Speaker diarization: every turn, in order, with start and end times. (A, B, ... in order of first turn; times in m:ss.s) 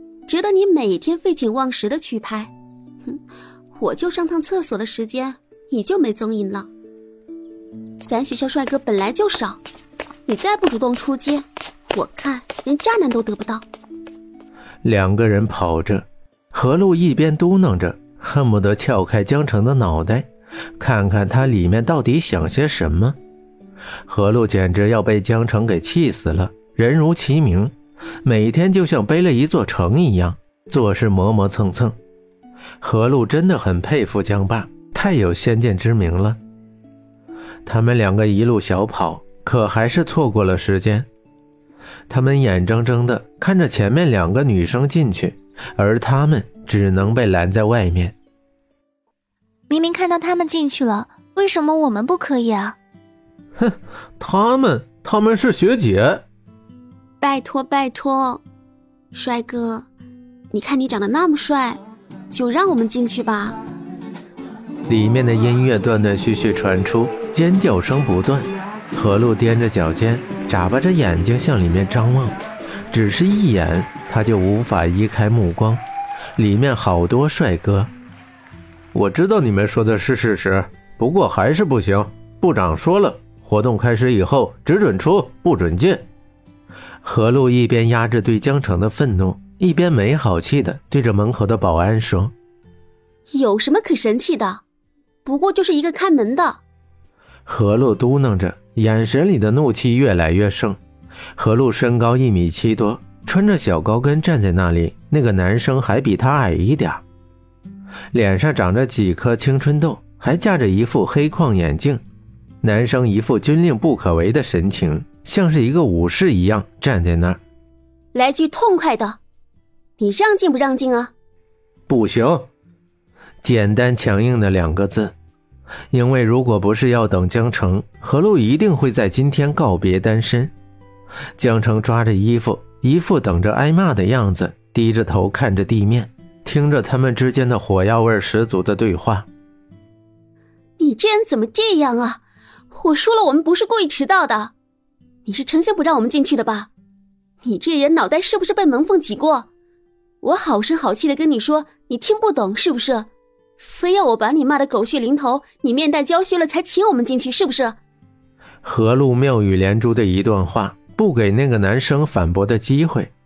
0:00.3-0:02.5 A
0:03.8-0:06.7 A
0:08.0-0:09.6 A
0:10.3-0:13.7 A
0:14.8-0:20.3 B
0:20.8-0:23.2 B
0:24.1-0:32.0 B
0:32.8-0:36.4 B
0:37.7-0:41.1 B
0:42.1-0:48.1 B
0:49.7-0:52.8 C
0:53.6-0:56.2 B
0:57.2-0:58.4 A
0:59.1-0:59.9 A
1:00.5-1:03.6 A
1:04.9-1:12.4 B
1:12.9-1:15.8 B
1:16.4-1:17.9 B
1:18.9-1:26.0 B
1:27.0-1:32.3 B
1:33.3-1:34.6 A
1:35.2-1:36.6 A
1:37.4-1:40.8 B
1:41.4-1:47.0 B
1:48.1-1:52.0 B
1:52.6-1:57.4 B
1:58.1-1:59.2 A
2:00.0-2:01.1 A
2:01.9-2:02.5 B
2:03.4-2:05.1 B
2:05.9-2:10.5 B
2:11.4-2:19.3 B
2:20.8-2:24.5 A
2:25.2-2:26.7 A
2:27.4-2:29.5 A
2:30.2-2:37.8 A
2:38.6-2:43.1 B